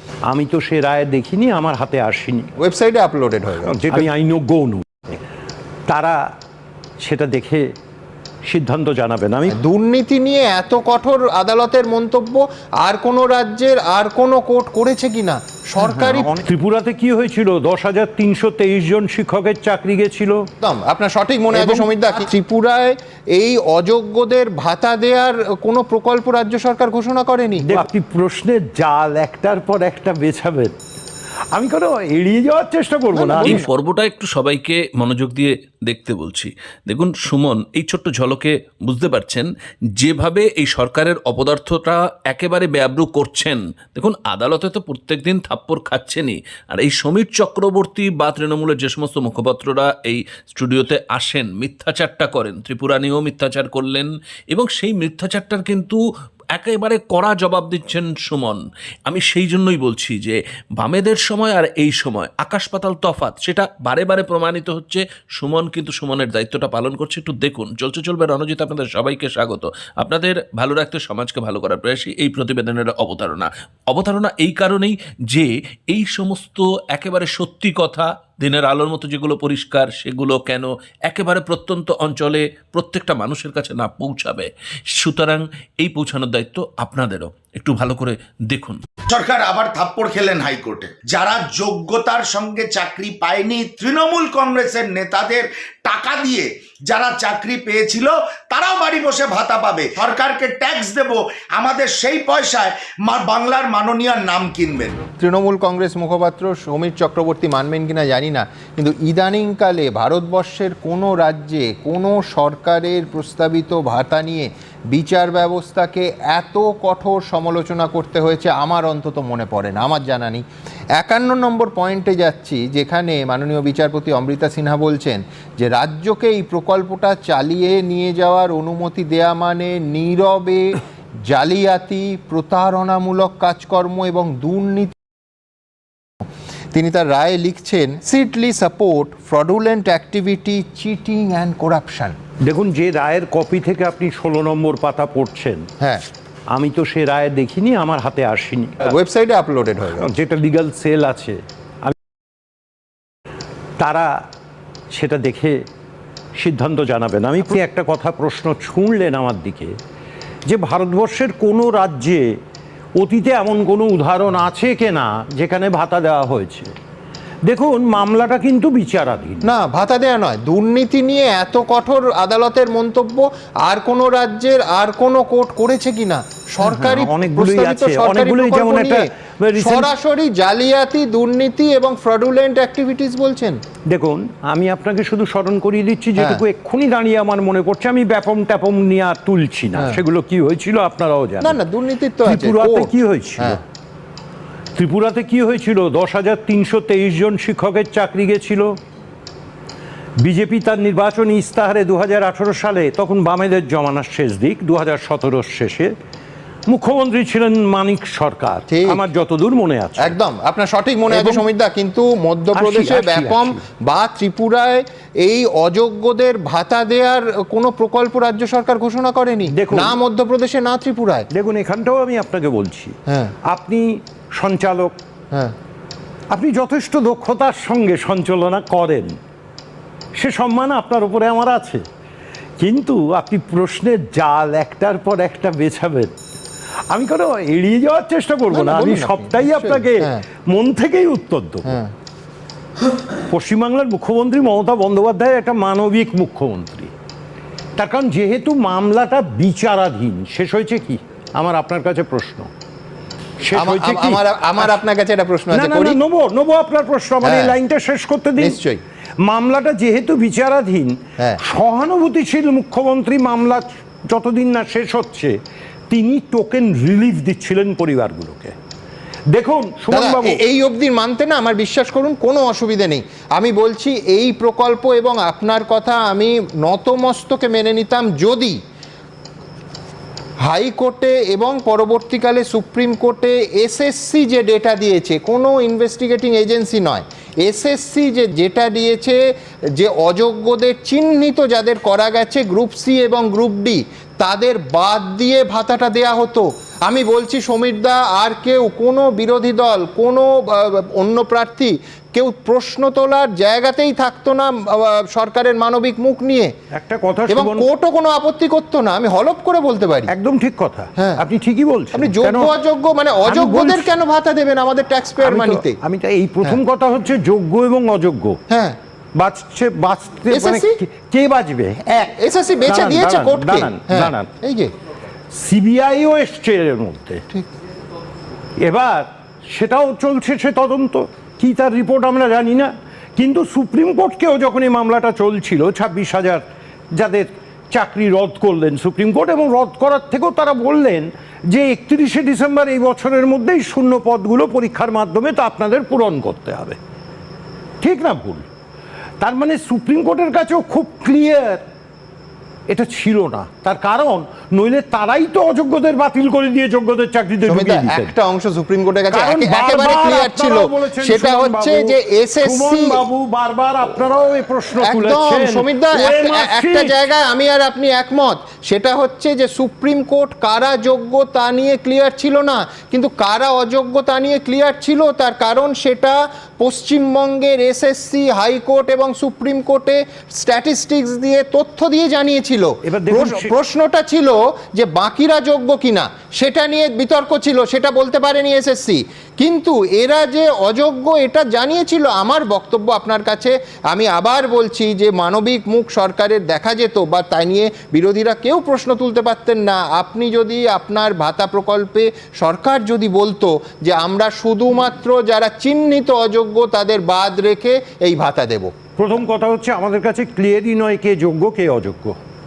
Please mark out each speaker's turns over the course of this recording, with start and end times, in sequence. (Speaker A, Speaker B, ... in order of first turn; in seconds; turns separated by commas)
Speaker A: 0.3-2.5, Speaker B: 2.6-4.1, Speaker A: 3.6-5.2, Speaker A: 5.9-6.2, Speaker A: 7.0-7.7, Speaker A: 8.4-9.6, Speaker B: 9.5-16.3, Speaker A: 15.8-20.4, Speaker B: 20.6-27.9, Speaker A: 21.5-21.9, Speaker A: 27.6-30.8, Speaker A: 31.5-33.6, Speaker B: 33.1-33.7, Speaker C: 33.4-39.5, Speaker C: 40.0-56.0, Speaker C: 56.5-88.8, Speaker D: 89.1-105.1, Speaker B: 105.2-120.4, Speaker B: 121.0-134.9, Speaker B: 136.7-142.2, Speaker A: 142.4-145.7, Speaker A: 146.5-149.0, Speaker B: 148.8-150.1, Speaker A: 149.9-151.9, Speaker A: 153.8-154.1, Speaker A: 154.9-155.6, Speaker A: 156.3-159.7, Speaker A: 160.5-162.3, Speaker A: 163.0-166.7, Speaker A: 167.4-169.5, Speaker B: 169.4-183.6, Speaker A: 176.6-179.9, Speaker A: 183.9-191.6, Speaker B: 186.2-186.4, Speaker B: 189.8-190.0, Speaker B: 191.4-193.6, Speaker A: 192.2-193.6, Speaker A: 194.8-198.7, Speaker A: 200.2-205.9, Speaker A: 206.7-210.2, Speaker B: 208.7-209.0, Speaker B: 210.0-221.3, Speaker A: 211.1-211.4, Speaker A: 212.5-213.6, Speaker A: 219.5-220.0, Speaker A: 221.3-224.9, Speaker B: 223.1-223.3, Speaker A: 226.3-229.2, Speaker A: 230.1-231.8, Speaker A: 232.6-236.1, Speaker A: 236.9-241.8, Speaker B: 238.5-240.2, Speaker B: 241.6-241.9, Speaker A: 243.3-246.9, Speaker A: 247.8-252.5, Speaker A: 253.4-254.7, Speaker B: 253.5-256.0, Speaker A: 255.5-258.6, Speaker B: 257.2-257.6, Speaker B: 258.4-258.8, Speaker A: 259.2-265.4, Speaker A: 265.9-268.5, Speaker A: 269.3-270.4, Speaker B: 269.9-278.6, Speaker B: 280.4-306.5, Speaker A: 306.7-307.7, Speaker B: 307.3-310.1, Speaker A: 310.1-312.6, Speaker B: 311.0-311.2, Speaker B: 311.9-315.8, Speaker A: 313.2-313.9, Speaker A: 315.2-318.4, Speaker B: 318.5-318.8, Speaker A: 319.1-324.3, Speaker B: 320.3-320.8, Speaker B: 322.1-324.7, Speaker A: 325.3-327.2, Speaker A: 328.6-346.8, Speaker A: 347.8-348.4, Speaker A: 349.2-351.6, Speaker A: 352.7-358.1, Speaker B: 357.4-363.1, Speaker A: 359.1-367.0, Speaker B: 364.8-408.7, Speaker A: 382.8-383.6, Speaker A: 409.0-412.2